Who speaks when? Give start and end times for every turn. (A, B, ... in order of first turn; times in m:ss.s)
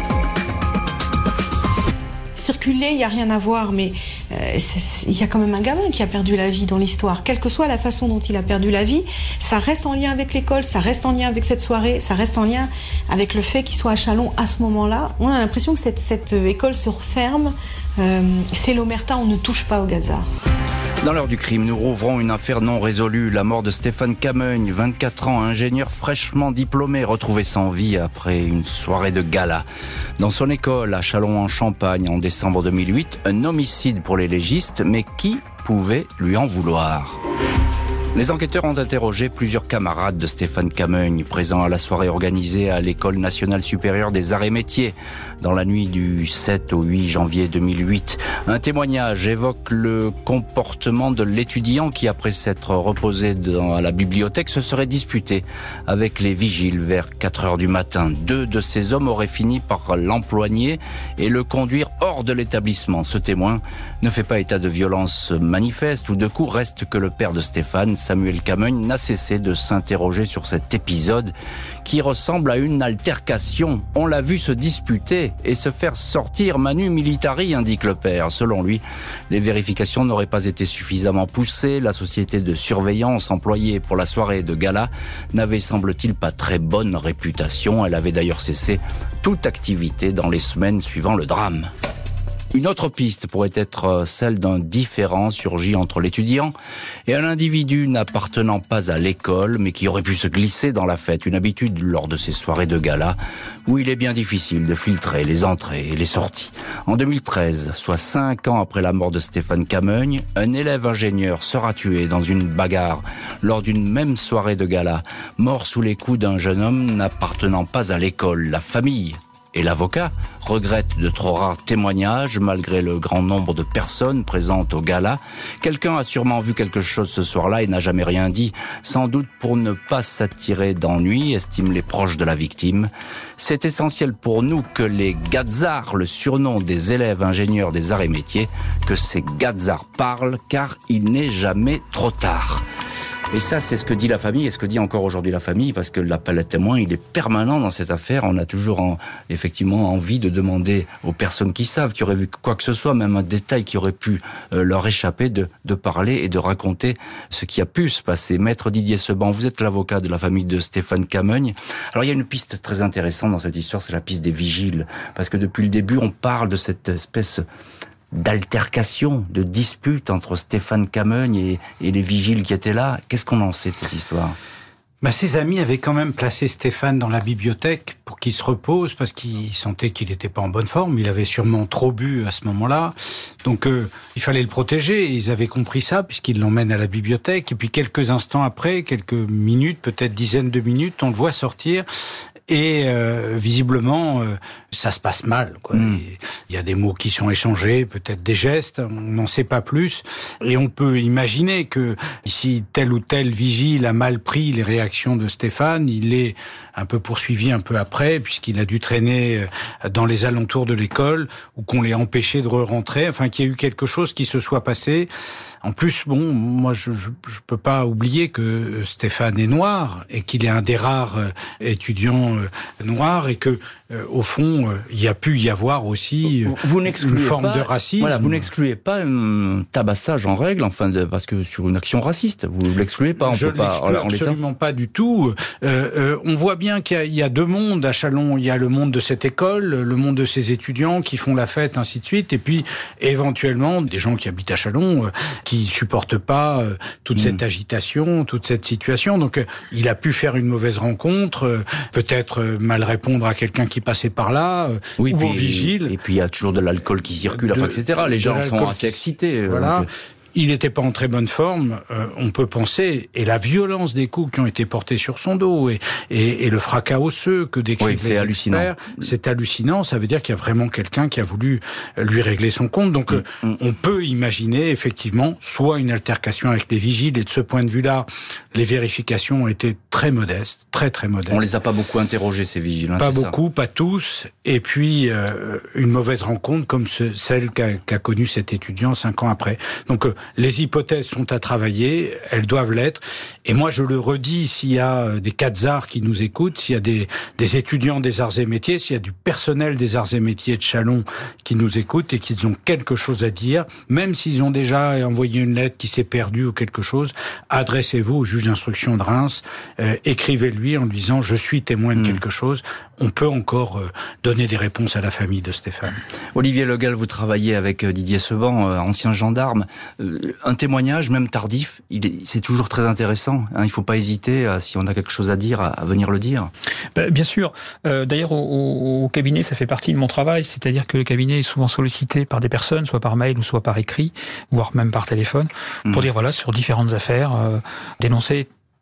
0:02.4-0:20.3 A
0:21.0-0:29.6 B
0:30.2-0:37.2 B
0:38.1-1:11.3 B
1:11.8-1:31.7 B
1:32.5-1:36.5 B
1:37.1-2:22.6 B
2:23.3-2:47.4 B
2:48.1-2:54.4 B
2:55.0-3:11.8 C
3:12.5-3:35.1 C
3:15.7-3:16.0 B
3:35.6-3:48.5 C
3:46.4-3:54.4 B
3:53.2-4:16.0 C
4:15.0-4:19.9 B
4:17.3-4:41.5 C
4:27.8-4:28.9 B
4:33.1-4:33.5 B
4:41.3-4:43.4 B
4:43.0-5:16.0 C
5:16.3-5:26.5 B
5:26.9-5:38.5 D